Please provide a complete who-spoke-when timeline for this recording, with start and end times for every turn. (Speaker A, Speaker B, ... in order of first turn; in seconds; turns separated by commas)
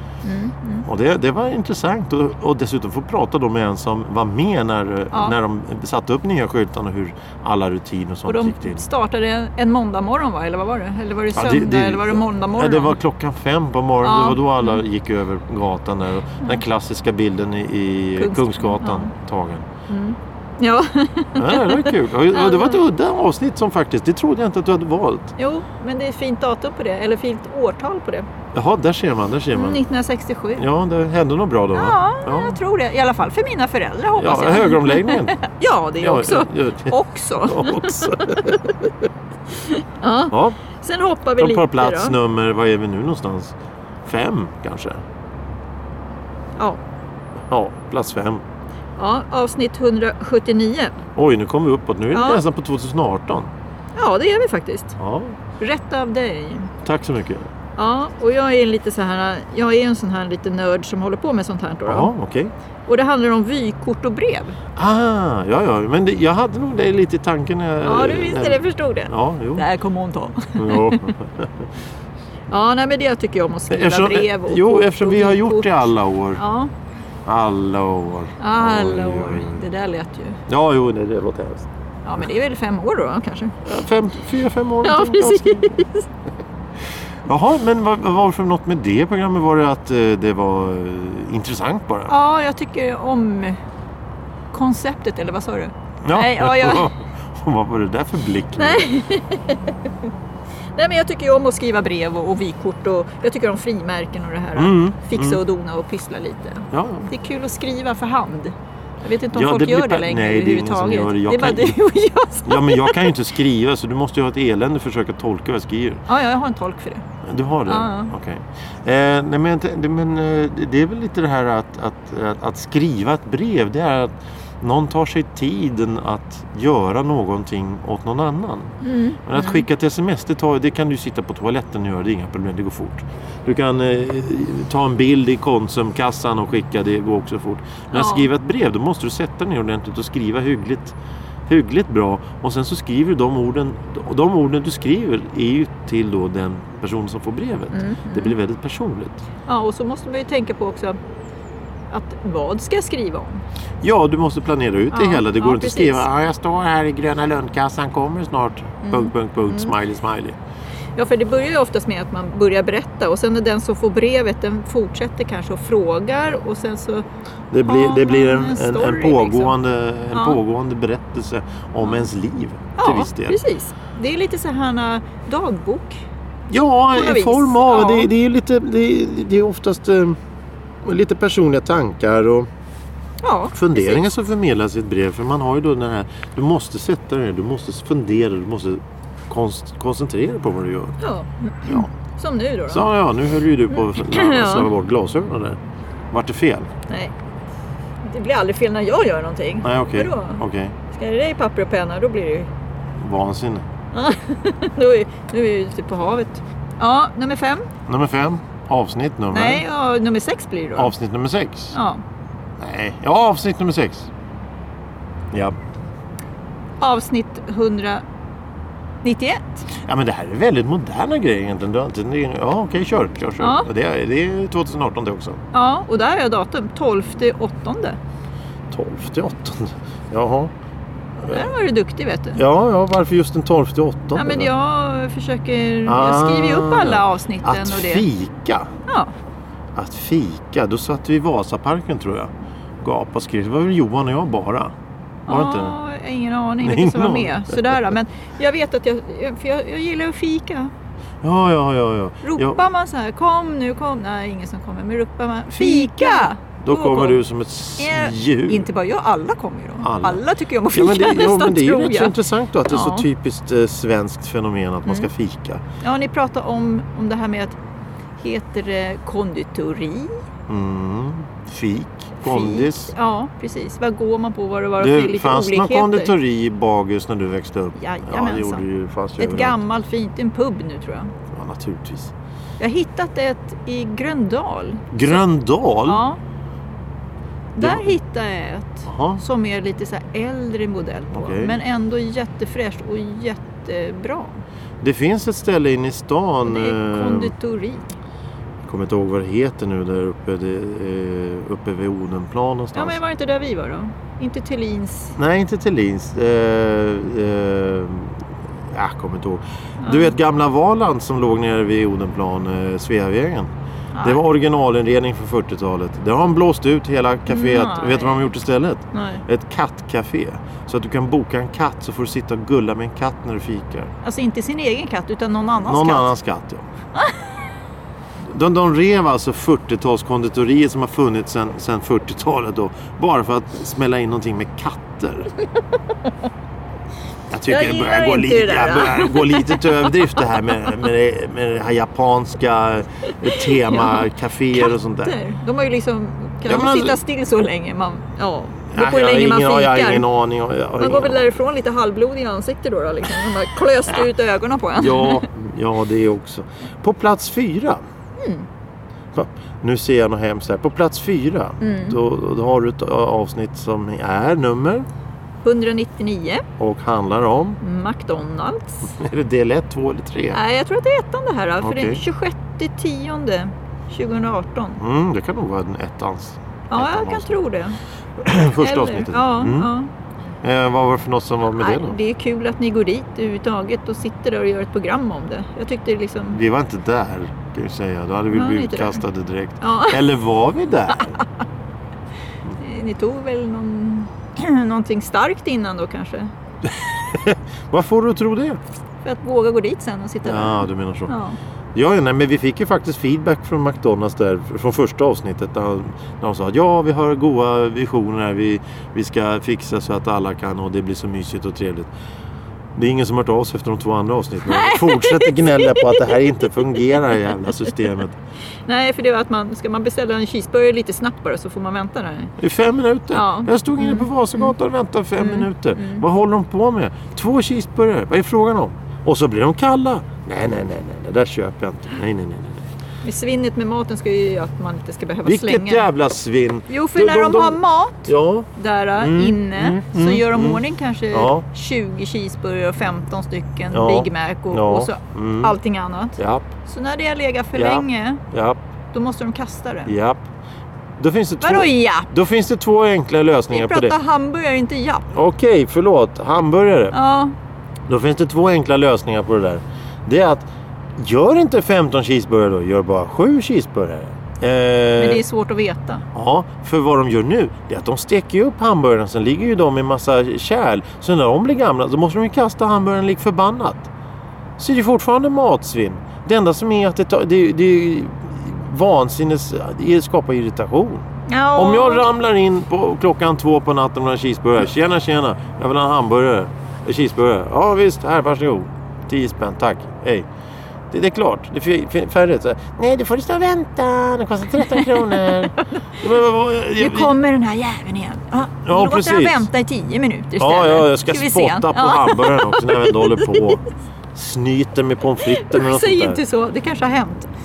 Speaker A: 0.2-0.9, Speaker B: 0.9-8.8, Speaker A: 8.3-13.0, Speaker B: 11.3-19.7, Speaker A: 14.0-14.8, Speaker A: 18.2-19.1, Speaker A: 19.9-22.8, Speaker B: 21.4-25.3, Speaker A: 25.4-28.3, Speaker B: 28.5-29.8, Speaker A: 29.5-30.7, Speaker B: 30.6-32.6, Speaker A: 31.7-38.7, Speaker B: 34.1-35.4, Speaker B: 36.0-38.7, Speaker A: 39.6-42.2, Speaker B: 40.3-40.6, Speaker B: 41.4-45.0, Speaker B: 47.4-48.4, Speaker A: 49.0-51.0, Speaker B: 51.1-53.5, Speaker A: 52.1-52.4, Speaker A: 54.0-55.0, Speaker B: 55.0-55.4, Speaker A: 55.6-56.7, Speaker B: 56.8-57.5, Speaker A: 57.8-62.1, Speaker B: 61.9-62.5, Speaker A: 62.9-64.6, Speaker B: 64.8-69.7, Speaker A: 67.8-71.1, Speaker B: 70.5-71.7, Speaker A: 72.5-75.7, Speaker B: 73.7-76.4, Speaker A: 76.4-76.7, Speaker B: 77.2-79.6, Speaker A: 78.4-80.4, Speaker B: 80.5-81.7, Speaker A: 82.0-83.5, Speaker B: 83.6-85.8, Speaker A: 84.8-86.0, Speaker B: 87.2-92.1, Speaker A: 92.1-93.6, Speaker A: 94.5-96.9, Speaker B: 96.0-98.9, Speaker A: 98.6-99.7, Speaker A: 100.8-113.1, Speaker B: 104.5-105.4, Speaker B: 106.7-107.1, Speaker B: 109.3-111.8, Speaker B: 112.5-116.0, Speaker A: 116.1-117.0, Speaker B: 117.2-128.7, Speaker A: 117.7-118.1, Speaker A: 128.8-129.7, Speaker B: 129.2-140.9, Speaker A: 137.9-138.3, Speaker B: 141.5-149.2, Speaker A: 147.7-148.3, Speaker A: 149.4-151.0, Speaker A: 151.9-153.4, Speaker B: 153.8-160.4, Speaker A: 154.9-156.0, Speaker A: 158.8-159.7, Speaker A: 160.9-167.0, Speaker B: 167.5-173.4, Speaker A: 167.6-169.5, Speaker A: 170.1-170.4, Speaker A: 172.8-176.0, Speaker B: 176.5-180.2, Speaker A: 176.9-178.1, Speaker B: 180.8-182.5, Speaker A: 183.2-184.1, Speaker B: 183.5-190.9, Speaker A: 191.0-192.9, Speaker B: 192.7-195.6, Speaker A: 193.7-194.7, Speaker B: 196.1-196.7, Speaker A: 198.0-202.5, Speaker B: 199.6-200.8, Speaker B: 203.0-203.7, Speaker A: 203.9-207.7, Speaker B: 207.9-209.6, Speaker A: 209.3-210.9, Speaker B: 210.8-211.8, Speaker A: 211.7-212.0, Speaker B: 212.6-214.1, Speaker A: 216.8-218.0, Speaker A: 219.0-219.7, Speaker B: 219.7-225.4, Speaker A: 223.4-223.7, Speaker A: 225.5-228.0, Speaker B: 228.7-230.5, Speaker B: 231.2-231.5, Speaker A: 231.3-232.4, Speaker B: 232.4-234.5, Speaker A: 234.2-238.1, Speaker B: 235.9-238.7, Speaker B: 239.7-244.7, Speaker B: 245.3-245.8, Speaker A: 245.3-250.7, Speaker B: 246.6-247.9, Speaker B: 251.2-252.6, Speaker A: 252.2-257.2, Speaker B: 255.5-258.7, Speaker A: 257.8-262.1, Speaker B: 259.8-265.6, Speaker A: 262.7-263.1, Speaker A: 265.8-267.6, Speaker A: 268.2-270.1, Speaker B: 270.5-272.9, Speaker A: 272.2-276.1, Speaker B: 274.8-279.6, Speaker A: 277.7-278.6, Speaker A: 279.2-281.1, Speaker B: 281.3-282.1, Speaker A: 282.6-285.2, Speaker B: 284.9-286.1, Speaker A: 285.9-286.2, Speaker A: 287.6-294.4, Speaker B: 287.6-288.0, Speaker B: 288.9-289.2, Speaker B: 291.1-291.6, Speaker B: 294.8-297.3, Speaker A: 296.4-297.9, Speaker B: 298.6-303.0, Speaker A: 302.7-305.1, Speaker B: 305.1-313.5, Speaker A: 309.8-310.1, Speaker A: 313.9-314.2, Speaker B: 314.0-323.9, Speaker A: 317.3-318.3, Speaker A: 318.9-319.2, Speaker A: 324.0-326.1, Speaker B: 325.6-326.6, Speaker A: 326.9-327.3, Speaker B: 328.2-335.3, Speaker B: 337.3-345.1, Speaker A: 337.4-340.8, Speaker A: 343.1-350.1, Speaker B: 346.5-347.0, Speaker B: 348.7-351.4, Speaker A: 350.8-355.3, Speaker B: 354.8-357.8, Speaker A: 358.2-358.5, Speaker B: 359.1-364.9, Speaker A: 361.6-362.0, Speaker A: 365.4-366.4, Speaker B: 366.6-367.6, Speaker A: 367.6-368.9, Speaker B: 368.9-370.4, Speaker A: 370.3-374.8, Speaker B: 371.6-372.0, Speaker B: 374.8-377.4, Speaker A: 376.7-377.8, Speaker B: 378.2-379.7, Speaker A: 378.6-379.9, Speaker B: 380.4-382.0, Speaker A: 381.6-386.4, Speaker B: 386.3-391.2, Speaker A: 388.3-389.0, Speaker A: 389.6-390.0, Speaker A: 392.6-396.3, Speaker B: 396.6-398.6, Speaker A: 399.0-401.4, Speaker B: 400.2-401.1, Speaker B: 401.7-411.9, Speaker B: 412.8-418.1, Speaker A: 414.4-416.8, Speaker A: 418.7-422.3, Speaker B: 422.4-432.7, Speaker A: 423.1-424.5, Speaker A: 425.2-426.0, Speaker A: 433.0-435.9, Speaker B: 435.2-441.4, Speaker A: 436.7-448.2, Speaker B: 443.7-445.6, Speaker B: 446.2-446.5, Speaker B: 447.6-448.6, Speaker A: 448.9-449.9, Speaker B: 449.9-450.3, Speaker B: 451.0-453.9, Speaker A: 451.4-452.1, Speaker A: 453.5-455.1, Speaker B: 455.1-456.9, Speaker A: 456.9-457.3, Speaker B: 457.9-465.2, Speaker A: 465.0-466.1, Speaker B: 466.1-473.9, Speaker B: 474.6-490.3, Speaker A: 481.3-482.1, Speaker B: 490.9-497.1, Speaker A: 494.7-495.3, Speaker A: 496.8-503.6, Speaker B: 498.6-499.5, Speaker B: 500.4-503.6, Speaker B: 504.1-506.2, Speaker A: 505.2-507.3